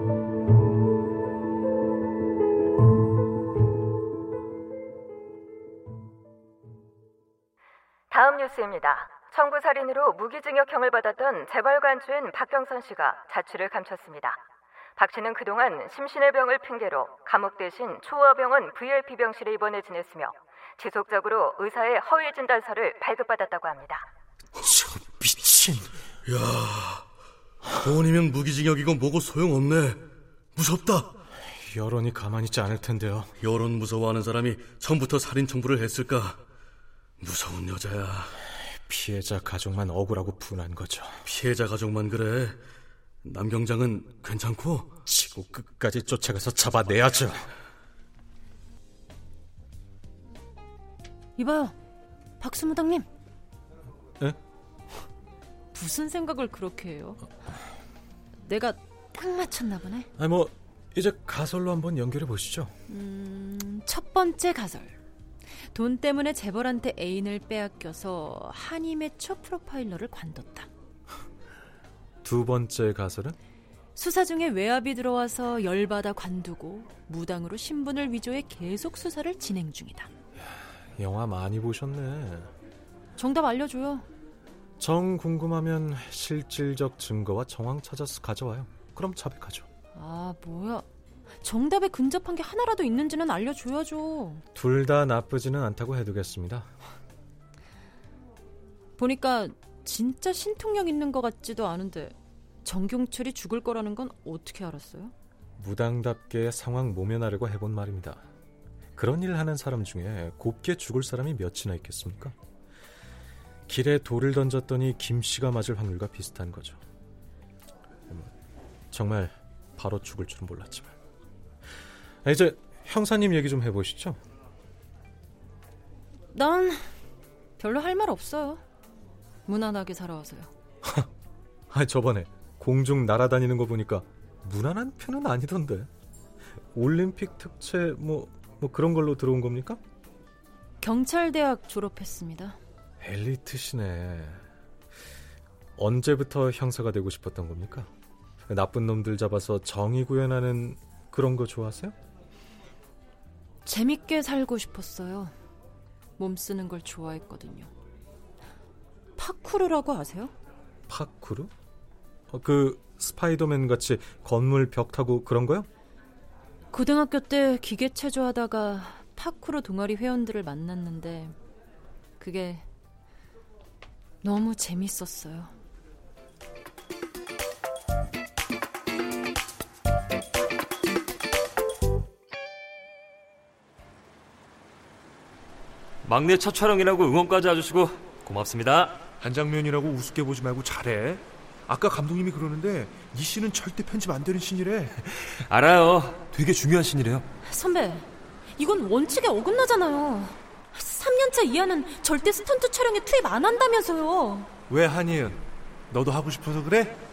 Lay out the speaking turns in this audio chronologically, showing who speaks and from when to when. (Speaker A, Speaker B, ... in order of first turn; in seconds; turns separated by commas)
Speaker A: 8.1-14.4, Speaker A: 15.0-24.1, Speaker B: 24.6-26.0, Speaker C: 26.2-27.0, Speaker C: 27.7-30.0, Speaker C: 30.6-31.1, Speaker B: 31.6-33.3, Speaker C: 33.4-36.4, Speaker C: 37.2-38.4, Speaker B: 38.9-41.2, Speaker C: 41.2-42.6, Speaker C: 43.2-44.9, Speaker B: 45.0-47.5, Speaker D: 51.4-51.7, Speaker D: 52.4-53.1, Speaker D: 55.7-57.2, Speaker D: 58.4-60.1, Speaker B: 60.2-62.7, Speaker D: 62.9-65.0, Speaker D: 65.7-70.7, Speaker B: 72.2-73.3, Speaker D: 74.0-80.1, Speaker B: 80.4-82.5, Speaker D: 83.2-84.0, Speaker B: 84.8-89.7, Speaker D: 89.9-90.8, Speaker D: 91.4-94.4, Speaker B: 94.5-96.7, Speaker D: 99.0-105.1, Speaker B: 105.6-108.2, Speaker B: 109.0-112.3, Speaker B: 113.7-116.8, Speaker B: 118.9-120.9, Speaker B: 122.2-124.2, Speaker D: 126.3-127.0, Speaker D: 127.6-128.6, Speaker D: 129.4-130.5, Speaker B: 131.7-135.9, Speaker B: 136.7-139.8, Speaker D: 140.8-142.6, Speaker B: 143.0-144.4, Speaker B: 145.8-147.9, Speaker B: 148.5-151.9, Speaker D: 153.6-155.3, Speaker D: 156.2-157.7, Speaker D: 159.2-160.3, Speaker B: 160.9-161.5, Speaker B: 162.3-165.7, Speaker D: 166.7-171.3, Speaker D: 172.2-172.7, Speaker D: 174.2-175.5, Speaker E: 186.0-188.9, Speaker F: 189.2-195.4, Speaker E: 195.5-197.2, Speaker D: 197.4-204.5, Speaker F: 204.7-207.0